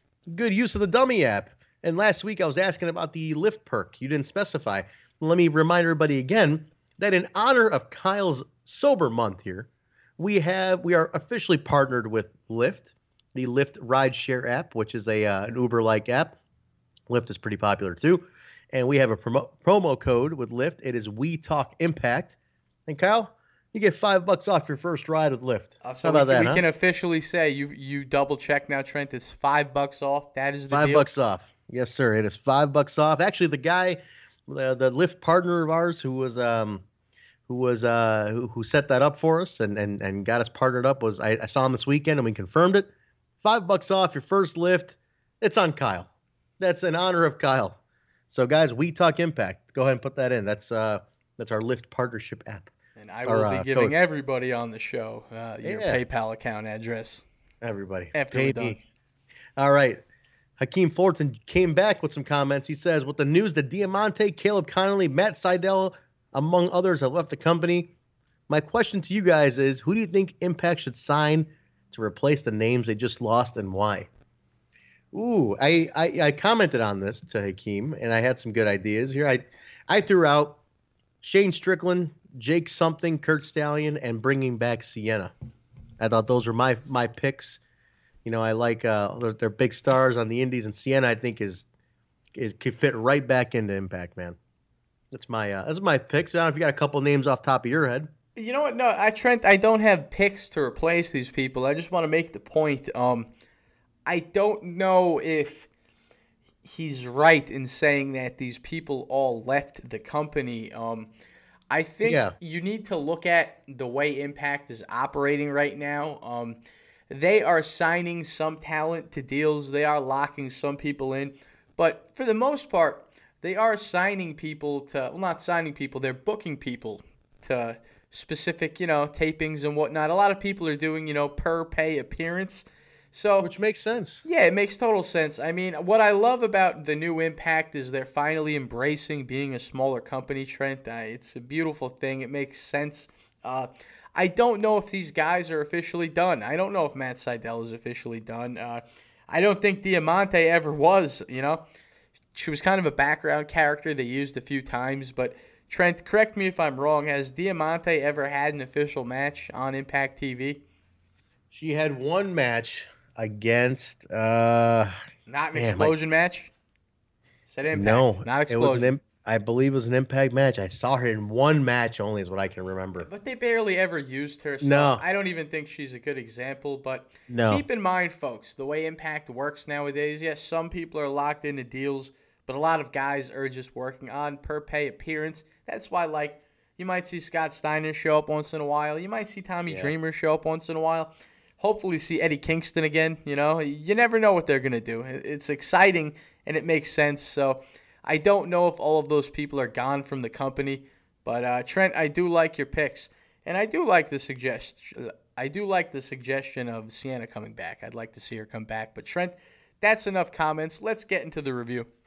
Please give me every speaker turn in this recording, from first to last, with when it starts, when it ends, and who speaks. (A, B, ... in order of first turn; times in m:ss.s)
0:00.3-0:16.4 A
0:17.1-0:22.4 A
0:22.9-0:26.6 A
0:25.8-0:31.1 B
0:30.7-0:36.8 A
0:37.5-0:42.9 A
0:43.4-0:46.1 A
0:46.6-0:47.8 A
0:48.3-0:52.7 A
0:53.0-0:57.3 B
0:53.3-0:54.0 A
0:55.6-0:56.0 A
0:57.6-0:58.8 A
0:58.1-0:58.8 B
0:59.6-1:00.0 A
1:00.6-1:07.9 A
1:08.5-1:14.1 A
1:15.1-1:20.6 A
1:21.2-1:25.3 A
1:26.0-1:27.6 A
1:28.2-1:31.7 A
1:32.3-1:34.4 A
1:35.1-1:38.1 A
1:38.4-1:43.3 B
1:44.1-1:45.7 B
1:46.6-1:51.1 B
1:51.7-1:56.6 B
1:52.0-1:52.4 A
1:57.1-2:13.5 B
2:13.4-2:14.2 A
2:14.2-2:31.6 B
2:32.4-2:40.6 B
2:41.5-2:44.9 A
2:45.3-2:46.5 B
2:45.6-2:45.9 A
2:47.5-2:48.9 B
2:47.7-2:53.1 A
2:53.0-3:31.9 B
2:54.6-2:55.0 A
2:57.3-2:57.6 A
3:09.7-3:09.9 A